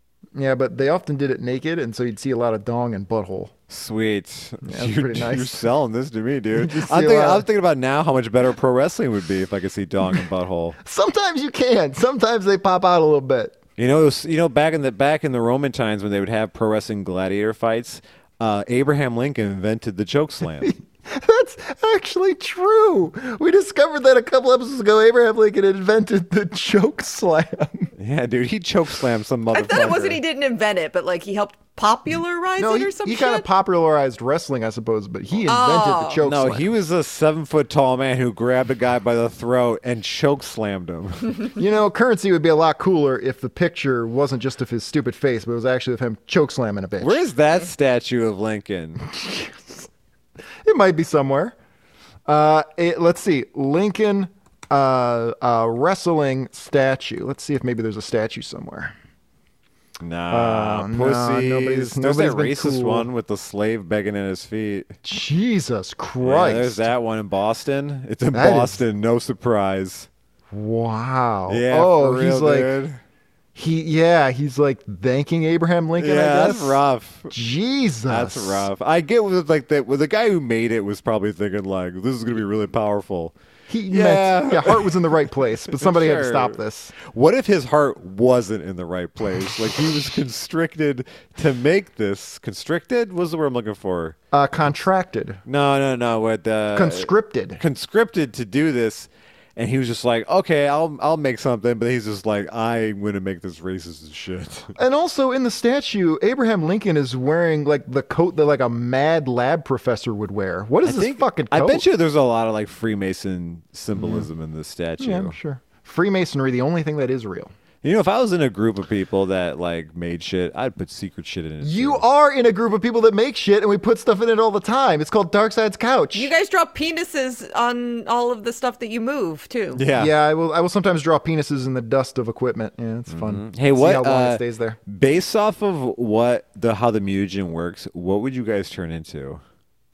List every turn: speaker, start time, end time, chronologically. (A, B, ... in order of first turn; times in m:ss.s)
0:00.3-0:03.5 A
0:03.7-0:10.8 B
0:04.6-0:05.7 A
0:06.5-0:07.4 A
0:10.8-0:13.6 A
0:13.8-0:20.7 B
0:20.6-0:27.9 A
0:28.0-0:30.2 B
0:29.5-0:33.4 C
0:32.6-0:36.7 A
0:35.5-0:36.2 C
0:36.2-0:41.5 B
0:41.6-0:47.2 A
0:47.0-0:49.0 B
0:49.1-0:49.8 A
0:50.6-0:51.5 A
0:52.2-0:58.9 A
1:00.0-1:04.9 B
1:00.3-1:03.1 A
1:05.0-1:06.9 A
1:06.2-1:10.1 B
1:08.3-1:08.8 A
1:10.5-1:12.7 A
1:11.5-1:13.0 B
1:13.5-1:18.7 A
1:16.0-1:17.3 B
1:18.1-1:23.3 B
1:23.7-1:27.0 A
1:23.9-1:34.2 B
1:34.3-1:35.4 A
1:35.4-1:44.7 B
1:36.7-1:37.6 A
1:44.8-1:51.8 A
1:50.8-1:55.3 B
1:53.9-1:54.3 A
1:55.0-1:57.5 A
1:57.8-2:02.0 B
2:01.6-2:06.3 A
2:06.1-2:09.8 C
2:09.7-2:10.1 B
2:09.9-2:14.8 A
2:13.1-2:19.4 B